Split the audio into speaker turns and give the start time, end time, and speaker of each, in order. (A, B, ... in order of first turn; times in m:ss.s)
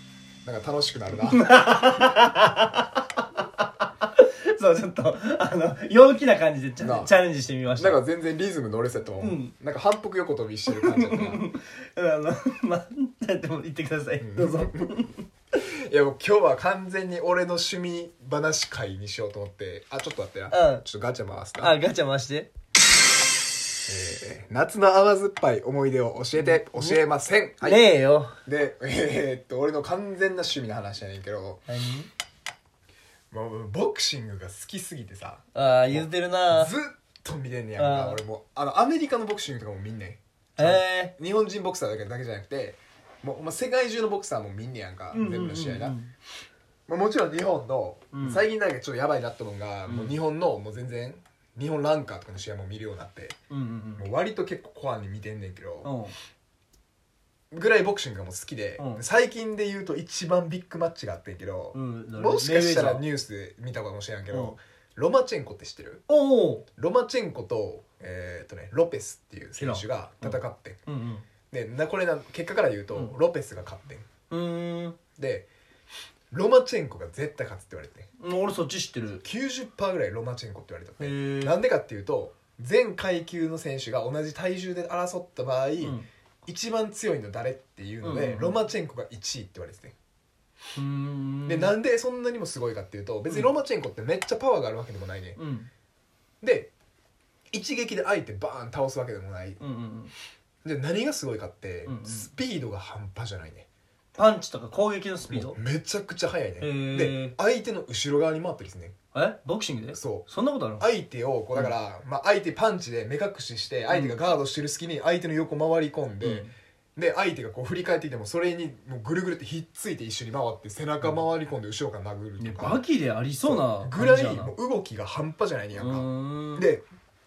0:00.4-0:01.5 A
0:01.2-0:08.0 B
0:06.8-0:07.1 A
0:07.7-0:11.4 A
0:09.2-0:09.5 B
0:10.7-0:15.2 B
0:14.2-0:15.0 A
0:15.5-0:21.8 A
0:20.5-0:20.8 B
0:21.6-0:22.5 B
0:23.9-0:27.8 A
0:26.4-0:27.0 B
0:27.6-0:28.4 B
0:28.4-0:31.6 A
0:31.7-0:32.1 B
0:33.3-0:46.0 A
0:35.5-0:36.7 B
0:37.8-0:38.2 B
0:40.6-0:41.1 B
0:45.1-0:46.1 B
0:46.9-0:53.4 A
0:48.1-0:48.4 B
0:49.8-0:50.1 B
0:53.5-0:54.0 B
0:54.0-0:55.9 A
0:55.8-0:56.1 B
0:57.5-1:06.0 A
0:58.8-0:59.0 B
1:01.7-1:03.0 B
1:04.3-1:04.6 B
1:06.1-1:06.6 B
1:06.8-1:10.8 A
1:09.6-1:11.2 B
1:11.5-1:14.0 A
1:14.3-1:15.0 B
1:15.2-1:15.5 A
1:16.3-1:18.1 A
1:18.2-1:19.2 B
1:19.2-1:29.9 A
1:21.0-1:21.6 B
1:25.8-1:26.0 B
1:28.0-1:28.6 B
1:30.7-1:31.7 B
1:31.4-1:35.4 A
1:35.4-1:35.7 B
1:36.4-1:36.7 A
1:37.5-1:39.6 A
1:39.6-1:40.1 B
1:40.6-1:43.7 A
1:41.8-1:42.3 B
1:44.2-1:45.6 B
1:45.3-1:48.9 A
1:46.6-1:47.4 B
1:49.1-1:50.9 B
1:49.9-1:50.3 A
1:50.8-2:02.8 A
1:53.9-1:54.2 B
1:56.2-1:56.5 B
2:02.4-2:04.5 B
2:03.4-2:06.8 A
2:05.7-2:06.7 B